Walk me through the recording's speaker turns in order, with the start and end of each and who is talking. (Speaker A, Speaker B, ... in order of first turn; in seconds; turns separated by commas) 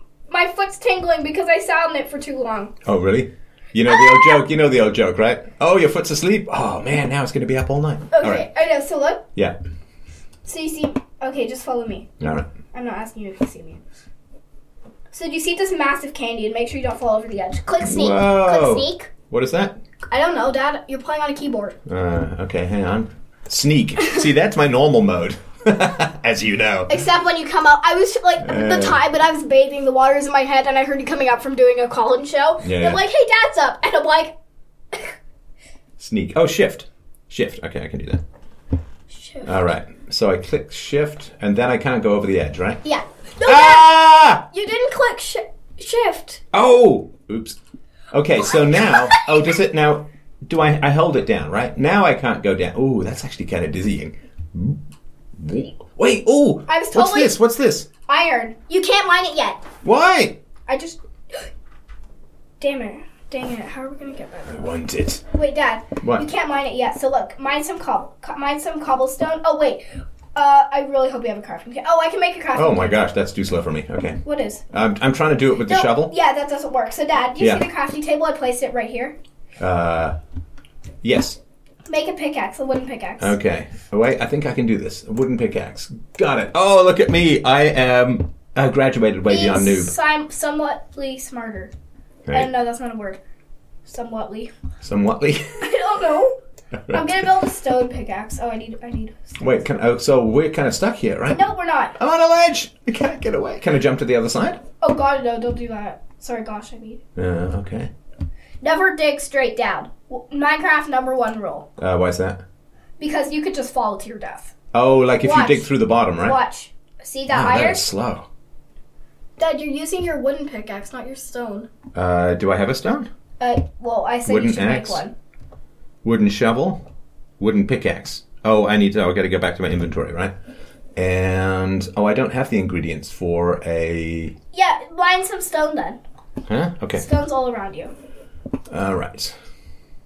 Speaker A: 0.3-2.7, Speaker B: 2.8-8.5, Speaker A: 3.9-4.4, Speaker A: 8.1-9.2, Speaker A: 10.4-12.1, Speaker B: 12.2-12.5, Speaker A: 12.7-13.8, Speaker A: 15.1-19.1, Speaker B: 17.8-19.8, Speaker A: 20.1-21.8, Speaker B: 21.9-26.9, Speaker A: 26.9-34.3, Speaker B: 28.4-29.0, Speaker B: 32.6-33.0, Speaker B: 36.0-38.2, Speaker A: 39.1-39.5, Speaker B: 39.5-42.8, Speaker A: 42.8-46.4, Speaker B: 43.4-44.4, Speaker B: 46.5-47.6, Speaker B: 48.1-54.8, Speaker A: 48.5-49.3, Speaker B: 55.4-57.9, Speaker A: 56.7-57.4, Speaker A: 58.1-59.6, Speaker B: 59.8-60.4, Speaker A: 60.7-61.5, Speaker A: 62.6-64.7, Speaker B: 64.5-65.2, Speaker A: 65.3-73.1, Speaker B: 72.5-76.1, Speaker A: 74.2-74.6, Speaker A: 75.7-79.2, Speaker B: 77.4-77.7, Speaker B: 79.6-80.2, Speaker B: 81.0-81.4, Speaker A: 81.9-83.3, Speaker B: 83.2-89.9, Speaker A: 89.3-91.7, Speaker A: 92.3-93.2, Speaker A: 93.9-94.5, Speaker B: 94.8-95.7, Speaker A: 95.6-96.4, Speaker B: 96.9-97.3, Speaker A: 96.9-99.6, Speaker B: 99.4-101.4, Speaker A: 101.3-102.0, Speaker B: 102.0-104.6, Speaker A: 104.8-107.0, Speaker B: 107.2-107.9, Speaker A: 108.6-111.7, Speaker B: 111.8-112.4, Speaker A: 113.0-114.5, Speaker B: 114.7-116.4, Speaker A: 115.2-115.7, Speaker A: 116.2-117.8, Speaker B: 117.3-118.3, Speaker A: 119.4-121.7, Speaker B: 121.9-123.1, Speaker A: 123.4-125.1, Speaker B: 124.3-125.0, Speaker B: 126.0-126.8, Speaker B: 127.4-130.3, Speaker B: 131.0-134.3, Speaker A: 134.5-136.0, Speaker B: 136.5-137.1, Speaker A: 136.9-137.9, Speaker B: 138.7-139.3